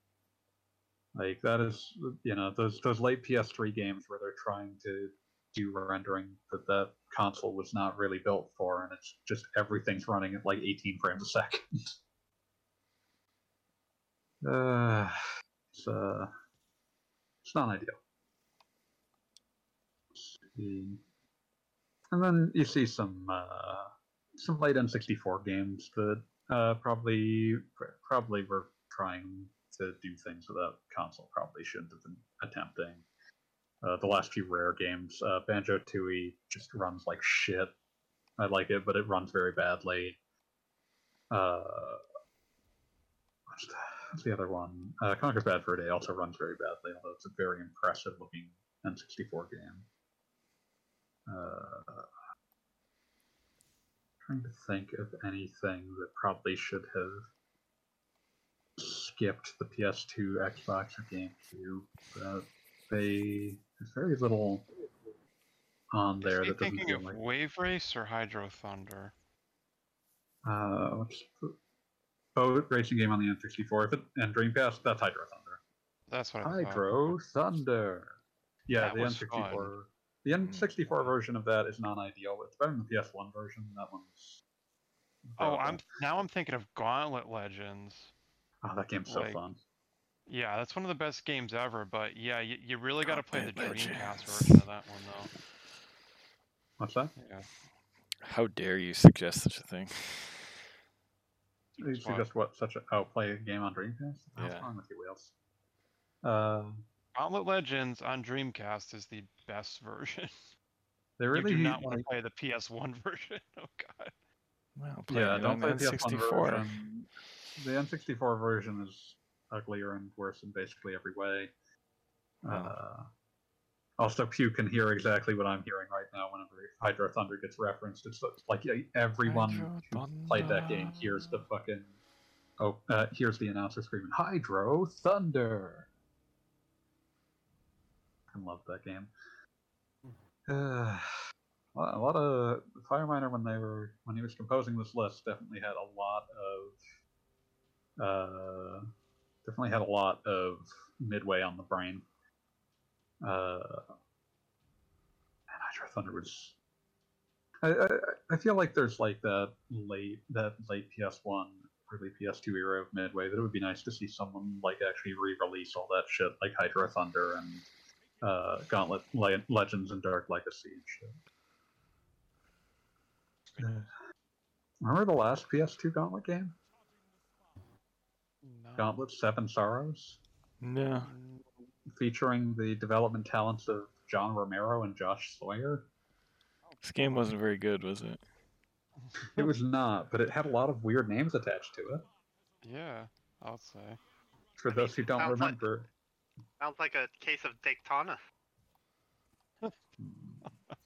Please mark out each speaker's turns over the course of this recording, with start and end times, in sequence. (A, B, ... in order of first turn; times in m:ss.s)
0:01.2-0:11.7 A
0:14.4-0:15.2 A
0:15.7-0:16.3 A
0:17.4-0:18.0 A
0:20.2-0:21.0 A
0:22.1-0:33.0 A
0:33.8-0:37.8 A
0:38.4-0:40.2 A
0:41.3-0:42.0 A
0:43.5-0:49.9 A
0:51.3-0:52.1 A
0:54.2-0:57.3 A
0:58.8-1:04.7 A
1:05.9-1:07.2 A
1:06.2-1:09.1 B
1:10.4-1:11.6 A
1:12.4-1:15.6 A
1:16.1-1:17.2 B
1:16.4-1:24.4 A
1:18.8-1:19.7 B
1:20.4-1:21.1 C
1:25.3-1:25.9 A
1:25.4-1:28.1 B
1:28.6-1:29.6 A
1:29.1-1:29.4 B
1:30.3-1:35.3 B
1:33.0-1:34.6 C
1:36.8-1:37.1 A
1:37.2-1:37.5 B
1:38.2-1:40.6 C
1:41.8-1:42.3 B
1:41.8-1:45.3 A
1:44.4-1:44.7 C
1:46.2-1:46.8 A
1:47.2-1:50.5 B
1:51.2-1:52.1 A
1:51.3-1:54.1 B
1:54.8-1:56.7 C
1:55.1-2:01.5 A
2:02.4-2:02.8 C
2:02.4-2:03.1 A
2:04.0-2:11.9 A
2:09.2-2:11.4 C
2:12.6-2:15.9 A
2:18.3-2:19.1 A
2:20.5-2:21.1 A
2:21.8-2:26.8 A
2:28.0-2:28.9 A
2:29.4-2:32.1 A
2:33.2-2:33.9 A
2:35.5-2:36.6 A
2:37.6-2:47.7 A
2:48.2-2:51.2 A
2:53.5-2:53.8 B
2:53.6-2:53.9 A
2:54.8-2:56.6 A
2:58.4-2:58.9 B
2:58.8-3:00.2 A
3:00.6-3:01.1 C
3:01.0-3:01.6 B
3:02.0-3:05.9 A
3:06.7-3:07.3 B
3:06.8-3:08.2 C
3:09.0-3:09.5 B
3:09.2-3:12.1 A
3:12.6-3:14.0 B
3:14.6-3:15.9 A
3:14.7-3:15.6 D
3:16.6-3:18.2 D
3:20.0-3:20.5 A